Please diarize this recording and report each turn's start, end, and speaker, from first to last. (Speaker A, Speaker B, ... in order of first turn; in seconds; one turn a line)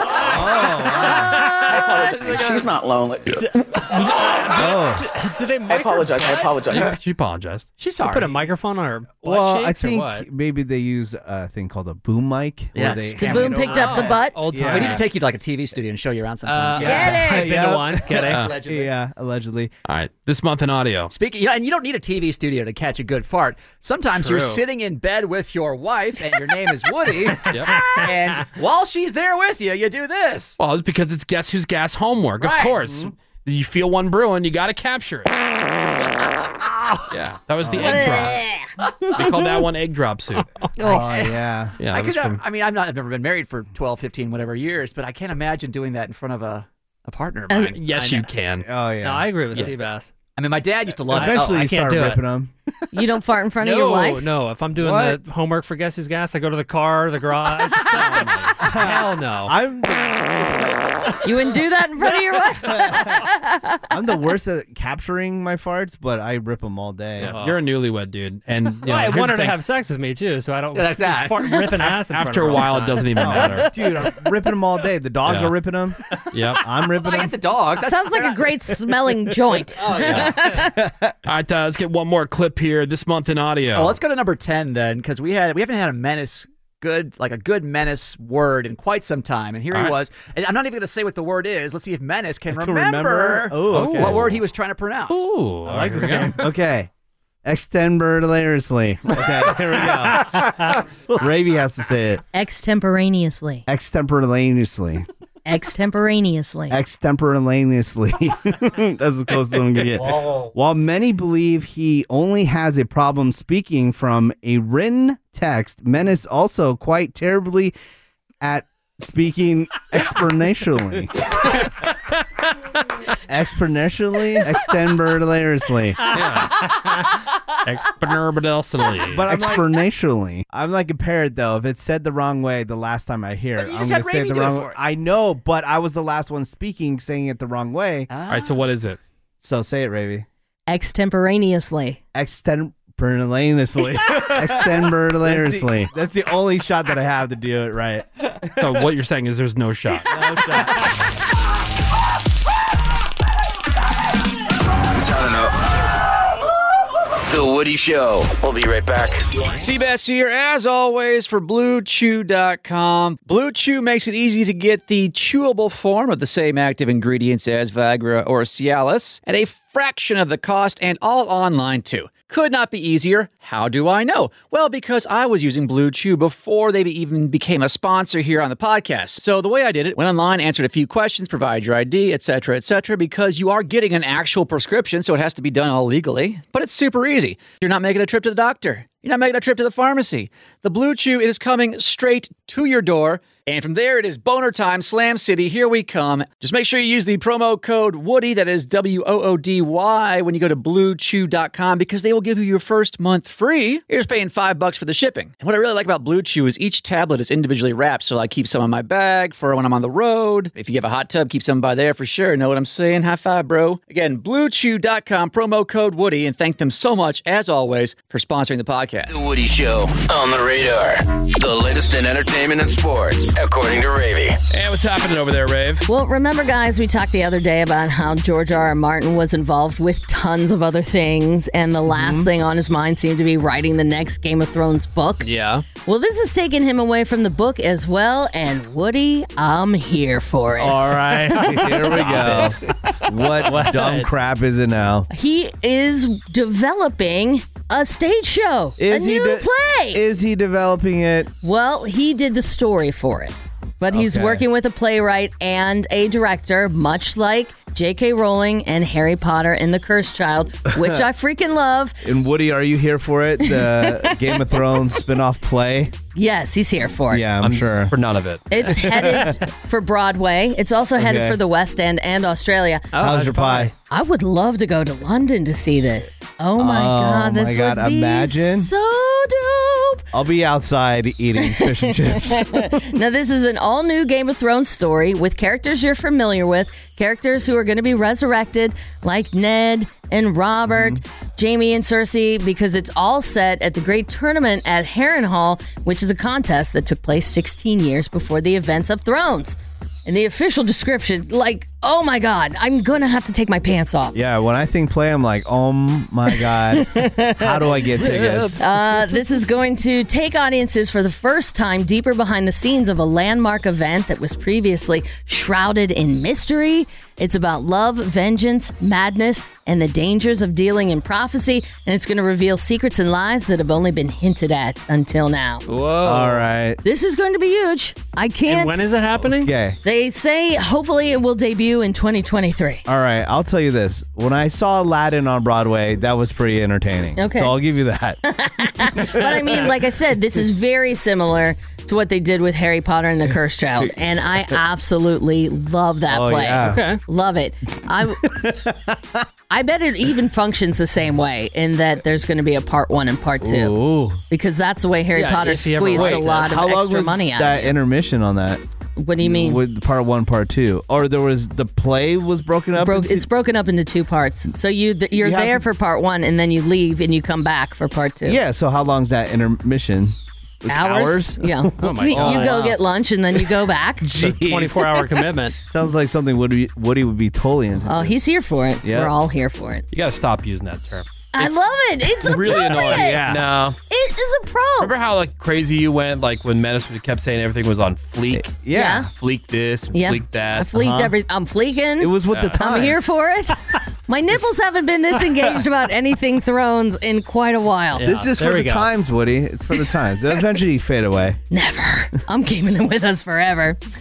Speaker A: 0.2-1.5
Speaker B: 1.2-2.3
Speaker C: 1.6-4.0
Speaker B: 4.1-6.6
Speaker A: 4.5-5.0
Speaker C: 5.7-7.0
Speaker D: 6.7-7.7
Speaker E: 7.8-8.5
Speaker B: 8.0-10.3
Speaker A: 9.2-15.0
Speaker B: 12.8-15.1
Speaker E: 13.1-13.7
Speaker F: 13.2-14.4
Speaker E: 14.7-17.1
Speaker B: 16.4-18.4
Speaker A: 16.8-19.7
Speaker F: 16.8-17.5
Speaker E: 18.1-18.9
Speaker D: 19.9-21.1
Speaker E: 21.1-30.6
Speaker B: 24.1-24.6
Speaker D: 27.5-27.8
Speaker B: 27.7-28.1
Speaker D: 30.6-35.4
Speaker E: 32.4-32.8
Speaker A: 32.9-33.1
Speaker D: 37.1-38.4
Speaker A: 37.6-38.1
Speaker F: 37.8-39.5
Speaker D: 39.2-40.5
Speaker A: 40.8-41.8
Speaker E: 40.9-41.4
Speaker D: 41.8-42.4
Speaker E: 41.9-48.0
Speaker D: 47.5-48.7
Speaker B: 48.0-48.2
Speaker A: 48.6-49.7
Speaker B: 49.0-50.1
Speaker E: 50.4-51.6
Speaker B: 51.1-52.2
Speaker A: 51.1-52.5
Speaker F: 52.9-54.3
Speaker B: 53.6-59.5
Speaker A: 54.8-55.2
Speaker A: 58.6-61.0
Speaker F: 61.2-63.8
Speaker A: 62.6-63.2
Speaker A: 63.9-67.3
Speaker D: 67.2-69.6
Speaker B: 67.2-67.6
Speaker B: 68.8-73.4
Speaker E: 70.7-71.9
Speaker D: 71.9-73.7
Speaker A: 73.2-76.0
Speaker D: 75.3-75.5
Speaker D: 76.3-76.6
Speaker A: 76.6-77.4
Speaker E: 77.0-78.5
Speaker F: 77.8-80.7
Speaker A: 79.0-79.3
Speaker E: 79.8-80.3
Speaker D: 80.0-80.3
Speaker A: 80.5-81.1
Speaker D: 81.3-84.0
Speaker E: 83.7-95.3
Speaker D: 89.7-90.0
Speaker A: 92.5-94.4
Speaker D: 93.7-94.3
Speaker D: 95.1-96.4
Speaker A: 95.7-96.9
Speaker B: 96.0-96.3
Speaker A: 97.5-102.2
Speaker F: 102.3-103.7
Speaker A: 103.7-105.1
Speaker F: 105.5-106.8
Speaker A: 106.7-117.7
Speaker D: 109.9-110.5
Speaker A: 118.4-121.1
Speaker A: 123.3-126.0
Speaker D: 126.1-126.8
Speaker D: 127.7-129.6
Speaker A: 129.1-138.1
Speaker E: 133.6-134.8
Speaker E: 138.1-138.6
Speaker D: 138.3-139.0
Speaker A: 139.4-140.3
Speaker F: 140.7-142.0
Speaker A: 142.1-148.8
Speaker D: 148.6-150.2
Speaker A: 150.1-150.8
Speaker G: 154.9-155.5
Speaker G: 157.3-159.3
Speaker E: 159.6-219.2
Speaker G: 219.1-224.4
Speaker D: 224.5-225.9
Speaker F: 225.9-235.3
Speaker A: 231.9-232.3
Speaker B: 235.2-235.7
Speaker F: 235.8-242.4
Speaker A: 240.6-242.6
Speaker B: 241.5-242.6
Speaker A: 243.1-245.1
Speaker B: 243.3-244.1
Speaker F: 245.1-250.0
Speaker A: 248.8-251.3
Speaker F: 251.4-262.0
Speaker A: 253.9-254.4
Speaker A: 260.7-261.1
Speaker A: 262.0-265.9
Speaker F: 263.4-264.4
Speaker F: 266.1-267.2
Speaker A: 267.1-267.9
Speaker D: 267.4-268.5
Speaker F: 268.5-272.9
Speaker A: 268.8-269.3
Speaker A: 271.0-271.4
Speaker B: 272.9-273.7
Speaker A: 273.0-273.7
Speaker F: 273.9-280.0
Speaker A: 276.6-278.7
Speaker A: 280.1-282.8
Speaker F: 281.4-304.2
Speaker A: 290.7-291.0
Speaker A: 304.1-308.6
Speaker F: 306.8-307.6
Speaker B: 307.9-308.6
Speaker F: 308.6-325.6
Speaker B: 325.7-326.4
Speaker A: 326.0-326.8
Speaker F: 326.8-328.8
Speaker B: 328.5-329.5
Speaker A: 329.3-329.8
Speaker F: 329.8-332.8
Speaker A: 332.9-338.2
Speaker F: 337.2-337.6
Speaker F: 338.3-348.2
Speaker A: 338.8-339.7
Speaker A: 346.1-346.8
Speaker B: 346.6-347.0
Speaker A: 348.2-349.2
Speaker F: 349.5-353.8
Speaker A: 353.4-354.2
Speaker F: 354.3-357.7
Speaker B: 355.1-356.5
Speaker A: 355.9-358.6
Speaker F: 359.0-359.6
Speaker A: 359.2-363.3
Speaker F: 362.8-368.4
Speaker A: 365.1-365.7
Speaker A: 368.2-372.6
Speaker F: 370.7-374.1
Speaker B: 371.8-372.8
Speaker A: 374.0-375.0
Speaker B: 374.2-375.6
Speaker A: 375.7-378.1
Speaker F: 377.9-379.9
Speaker A: 378.8-379.1
Speaker D: 379.9-383.8
Speaker F: 381.3-384.9
Speaker A: 382.3-383.4
Speaker D: 384.8-388.5
Speaker A: 388.3-389.1
Speaker F: 388.7-389.1
Speaker D: 389.1-390.7
Speaker F: 389.9-398.1
Speaker A: 392.0-393.0
Speaker D: 392.3-392.6
Speaker B: 398.0-398.9
Speaker A: 398.0-401.4
Speaker F: 401.5-403.8